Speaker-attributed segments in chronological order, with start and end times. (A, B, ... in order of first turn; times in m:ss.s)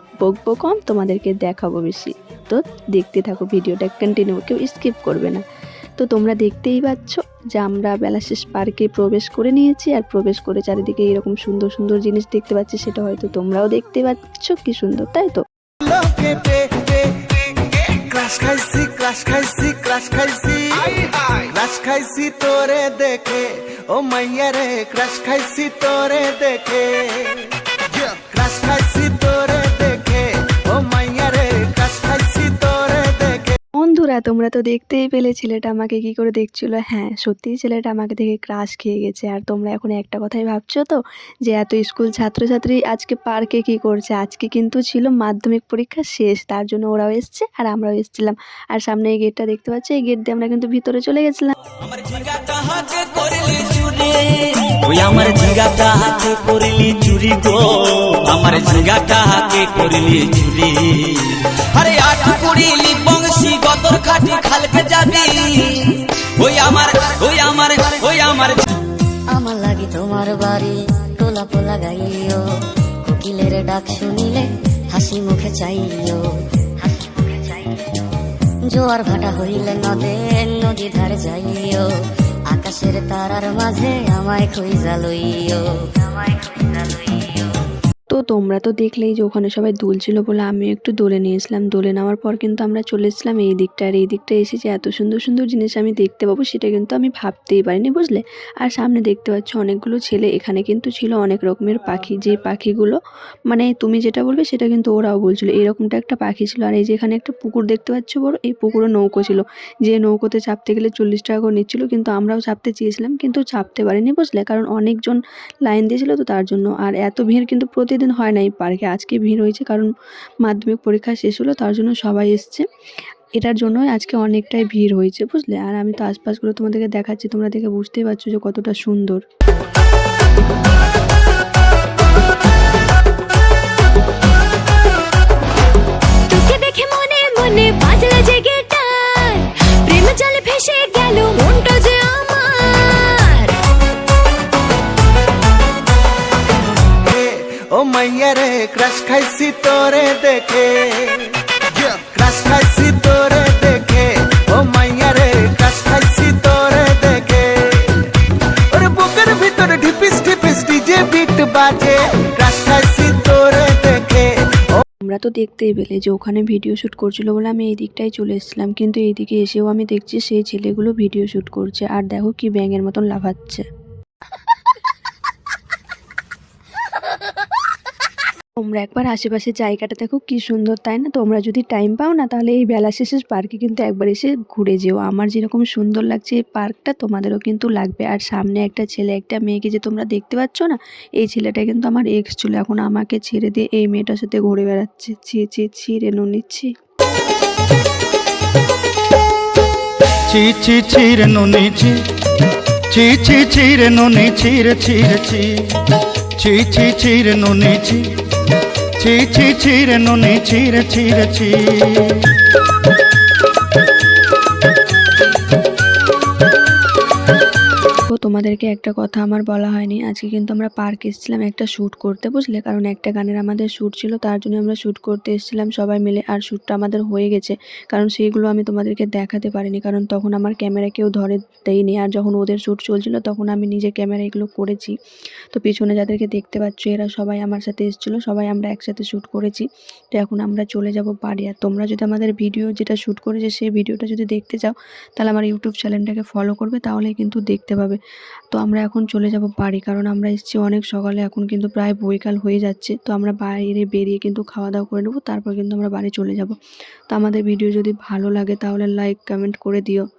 0:00.2-0:05.4 A
0:06.0-0:15.4 A
0:15.8-0:33.6 B
0:33.8-0:51.5 A
0:51.8-1:08.6 C
1:09.3-1:12.5 D
1:13.0-1:18.0 D
1:18.7-1:21.9 D
1:22.5-1:27.6 D
1:28.1-1:43.0 A
1:43.5-1:59.9 A
2:00.4-2:02.6 A
2:03.4-2:09.2 A
2:16.3-2:23.6 E
2:26.9-2:44.8 B
2:45.0-2:53.6 A
2:58.6-3:16.7 A
3:20.3-3:22.0 F
3:22.9-3:25.8 F
3:26.4-3:28.1 F
3:29.0-3:32.3 F
3:38.1-3:54.9 A
3:55.5-4:08.0 A
4:08.5-4:16.6 A
4:17.1-4:20.0 A